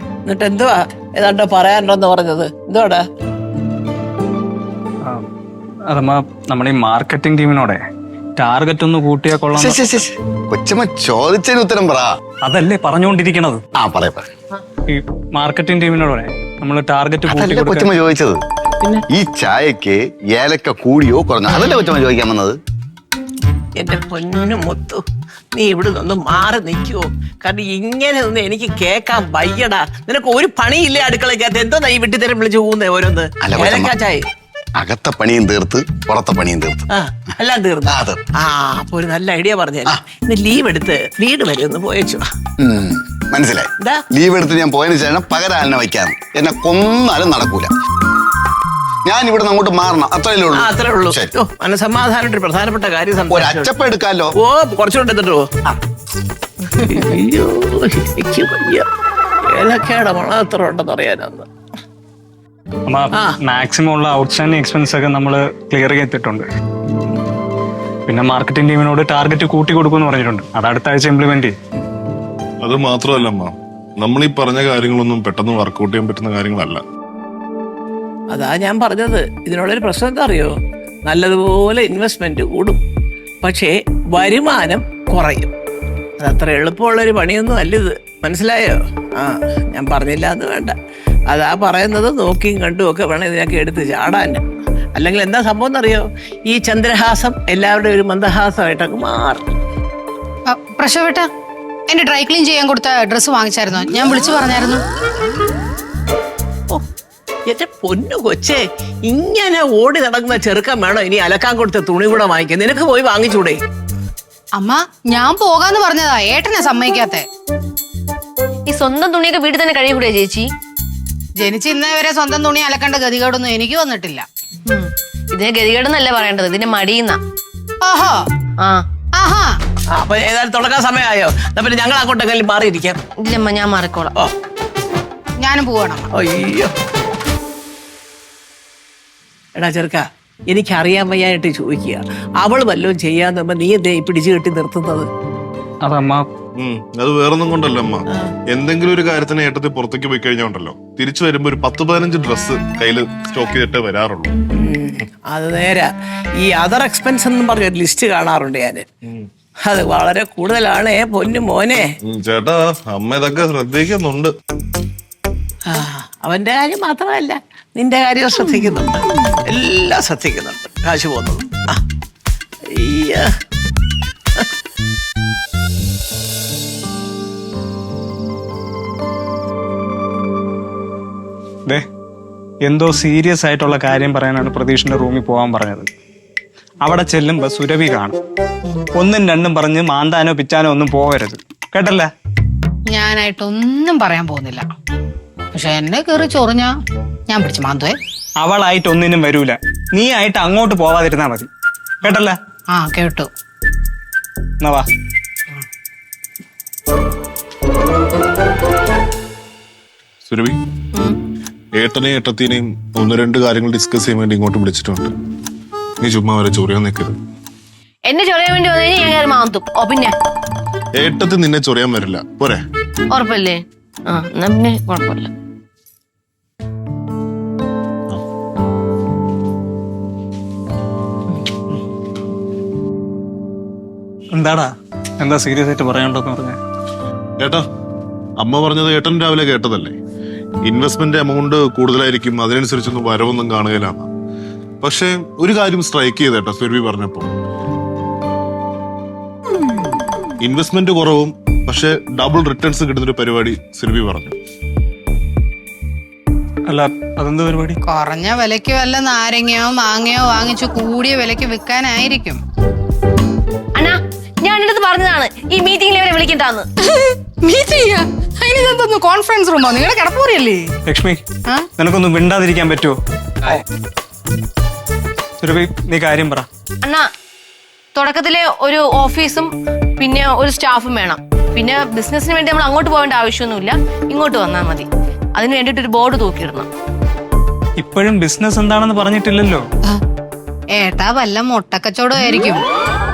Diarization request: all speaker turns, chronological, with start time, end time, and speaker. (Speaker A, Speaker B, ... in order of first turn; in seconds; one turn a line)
Speaker A: 0.2-3.0
Speaker B: 5.9-7.8
Speaker B: 8.4-10.0
Speaker C: 9.5-12.1
Speaker B: 12.4-13.6
Speaker C: 13.8-14.3
Speaker B: 14.9-17.9
Speaker C: 17.3-18.4
Speaker C: 19.1-22.6
Speaker A: 23.8-25.0
Speaker A: 25.5-34.2
Speaker C: 33.4-33.9
Speaker C: 34.8-36.9
Speaker A: 36.9-42.2
Speaker C: 37.9-38.2
Speaker C: 42.6-47.7
Speaker C: 49.0-51.3
Speaker A: 50.5-53.7
Speaker C: 53.3-54.3
Speaker A: 54.4-55.5
Speaker A: 56.8-58.9
Speaker A: 59.5-61.5
Speaker B: 62.9-66.5
Speaker B: 68.1-71.5
Speaker D: 72.6-76.8
Speaker A: 78.3-80.5
Speaker A: 81.1-82.8
Speaker A: 83.4-85.5
Speaker A: 86.2-90.7
Speaker A: 91.3-94.4
Speaker A: 95.0-99.5
Speaker E: 100.5-101.3
Speaker E: 101.9-104.8
Speaker A: 107.5-113.6
Speaker E: 114.6-117.2
Speaker F: 118.7-120.5
Speaker E: 121.4-124.2
Speaker F: 124.7-127.2
Speaker E: 127.8-128.2
Speaker E: 129.1-129.6
Speaker A: 130.0-133.0
Speaker F: 133.2-134.1
Speaker E: 135.4-136.1
Speaker A: 136.1-136.7
Speaker A: 139.6-145.1
Speaker B: 145.8-146.2
Speaker D: 146.6-154.3
Speaker A: 154.6-155.9
Speaker A: 156.4-158.9
Speaker A: 159.6-161.9
Speaker D: 162.0-164.3
Speaker A: 165.7-171.8
Speaker A: 172.7-173.3
Speaker B: 182.6-185.9
Speaker B: 186.8-188.2
Speaker B: 188.9-192.1
Speaker E: 192.9-194.6
Speaker E: 195.5-196.7
Speaker E: 197.3-197.9
Speaker B: 198.4-201.5
Speaker B: 202.0-202.3
Speaker E: 202.7-203.3
Speaker B: 204.6-204.9
Speaker D: 210.3-210.6
Speaker D: 211.8-215.1
Speaker D: 216.0-217.1
Speaker F: 218.1-220.1
Speaker D: 221.0-222.6
Speaker F: 223.1-225.3
Speaker B: 234.3-236.6
Speaker D: 237.4-237.6
Speaker D: 238.4-239.9
Speaker D: 240.6-244.1
Speaker D: 244.8-247.3
Speaker D: 250.4-254.3
Speaker B: 256.7-257.8
Speaker E: 257.8-262.4
Speaker F: 263.7-266.6
Speaker E: 266.8-270.7
Speaker B: 270.9-271.2
Speaker B: 271.8-273.6
Speaker B: 275.4-276.4
Speaker F: 276.8-277.1
Speaker F: 277.9-286.7
Speaker B: 287.8-289.6
Speaker E: 290.7-292.6